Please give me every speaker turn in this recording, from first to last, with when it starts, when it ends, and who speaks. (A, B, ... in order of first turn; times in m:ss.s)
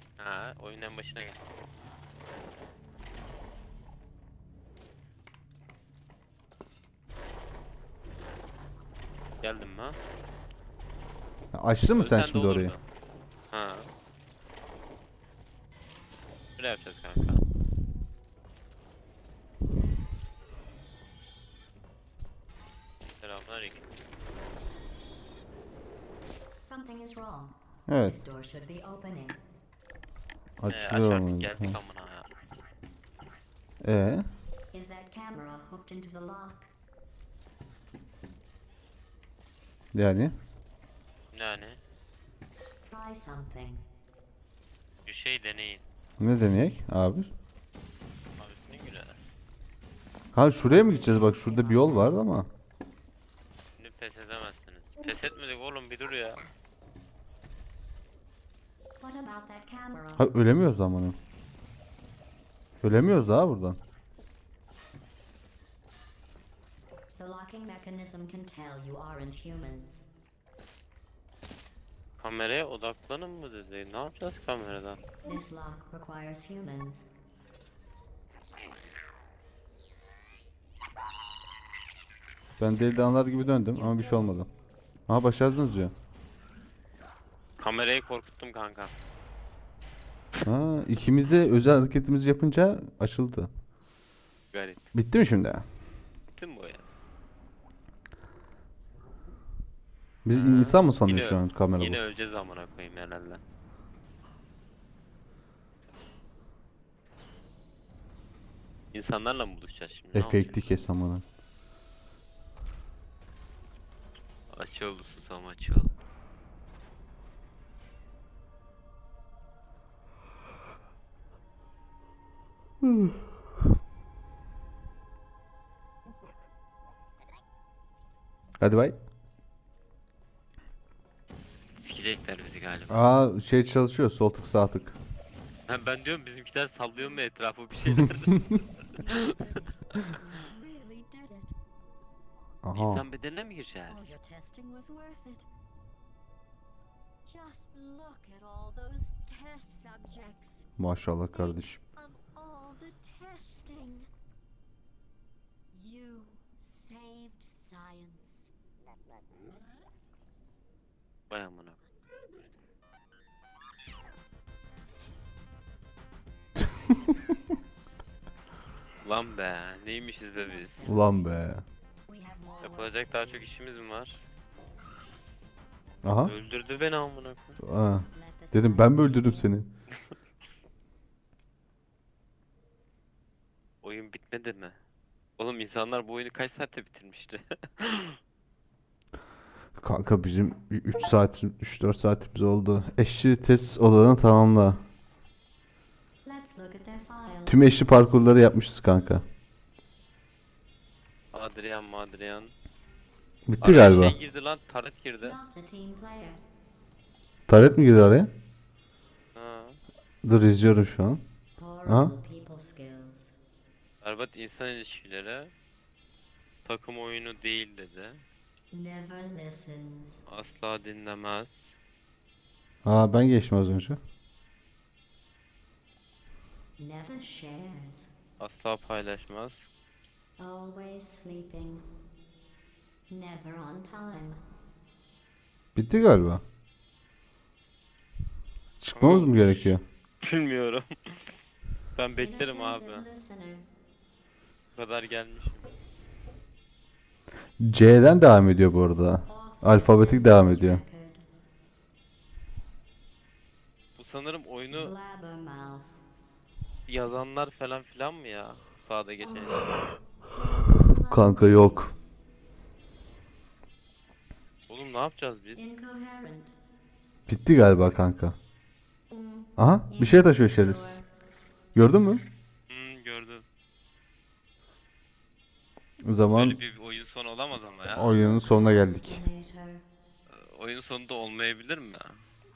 0:00.2-0:01.4 A
0:09.4-0:10.0 A
0:11.5-0:12.7 B
0:11.9-0:12.8 A
0:13.5-0:13.9 A
0:16.6-0:17.4 A
0:23.2-0:23.8 A
0:26.6-0:29.4 C
0:27.9-0:28.2 B
0:30.6-0:31.8 B
0:30.7-0:32.3 A
0:33.8-0:34.2 B
0:34.7-0:36.7 C
0:39.9-0:40.3 B
0:41.3-0:41.8 A
0:42.8-0:43.8 C
0:45.0-0:45.8 A
0:46.2-0:47.3 B
0:48.4-0:49.2 A
0:50.3-0:52.5 B
0:50.7-0:52.1 C
0:53.8-0:56.5 A
0:59.0-1:00.2 C
1:00.2-1:01.2 B
1:02.8-1:03.8 B
1:07.2-1:10.0 C
1:12.2-1:15.0 A
1:15.2-1:17.1 C
1:22.6-1:24.5 B
1:23.7-1:24.4 C
1:25.1-1:25.9 B
1:27.6-1:28.9 A
1:30.4-1:33.5 B
1:34.5-1:34.8 A
1:34.9-1:35.6 B
1:36.4-1:36.8 A
1:40.2-1:42.0 B
1:40.3-1:43.4 A
1:48.9-1:50.6 A
1:50.1-1:51.2 B
1:54.5-1:55.9 A
2:08.6-2:09.0 B
2:11.8-2:13.0 A
2:12.9-2:15.0 B
2:15.7-2:20.2 A
2:19.0-2:21.6 C
2:22.6-2:23.0 B
2:22.7-2:24.1 A
2:23.9-2:25.5 C
2:27.2-2:30.7 C
2:30.8-2:31.8 B
2:31.3-2:34.1 C
2:35.7-2:38.5 C
2:41.3-2:41.8 A
2:49.0-2:51.0 A
2:50.3-2:51.4 C
2:50.8-2:51.6 B
2:52.1-2:53.4 C
2:52.6-2:54.2 A
2:56.0-2:56.3 B
2:56.2-2:57.6 A
2:57.6-2:59.7 B
2:58.1-2:59.5 C
3:03.8-3:04.8 A
3:05.4-3:08.2 A
3:09.8-3:14.8 B
3:16.2-3:17.8 C
3:17.4-3:19.2 B
3:21.3-3:22.5 A
3:23.4-3:24.2 B
3:23.6-3:25.4 A
3:25.2-3:26.4 C
3:27.5-3:28.3 B
3:29.3-3:29.8 A
3:30.2-3:31.2 B
3:31.6-3:33.3 C
3:31.8-3:32.1 B
3:34.0-3:35.5 A
3:36.6-3:38.2 A
3:38.7-3:40.2 C
3:40.3-3:41.7 A
3:42.8-3:44.0 B
3:46.8-3:48.1 C
3:48.4-3:49.7 A
3:50.4-3:51.8 C
3:53.1-3:54.4 C
3:55.7-3:56.4 B
3:58.8-3:59.8 B
3:58.9-4:01.4 A
4:01.9-4:03.0 A
4:02.1-4:03.7 C
4:04.7-4:05.6 A
4:07.6-4:10.8 B
4:09.3-4:11.2 C
4:13.9-4:14.9 A
4:14.7-4:16.0 C
4:16.9-4:19.9 A
4:19.2-4:22.1 C
4:21.0-4:21.9 B
4:24.7-4:25.7 A
4:25.5-4:26.6 C
4:27.3-4:28.4 B
4:29.1-4:31.0 C
4:29.6-4:31.0 B
4:31.7-4:32.2 B
4:32.7-4:33.4 A
4:36.0-4:36.6 B
4:36.3-4:38.3 A
4:38.0-4:39.2 B
4:38.0-4:39.8 C
4:40.3-4:42.2 A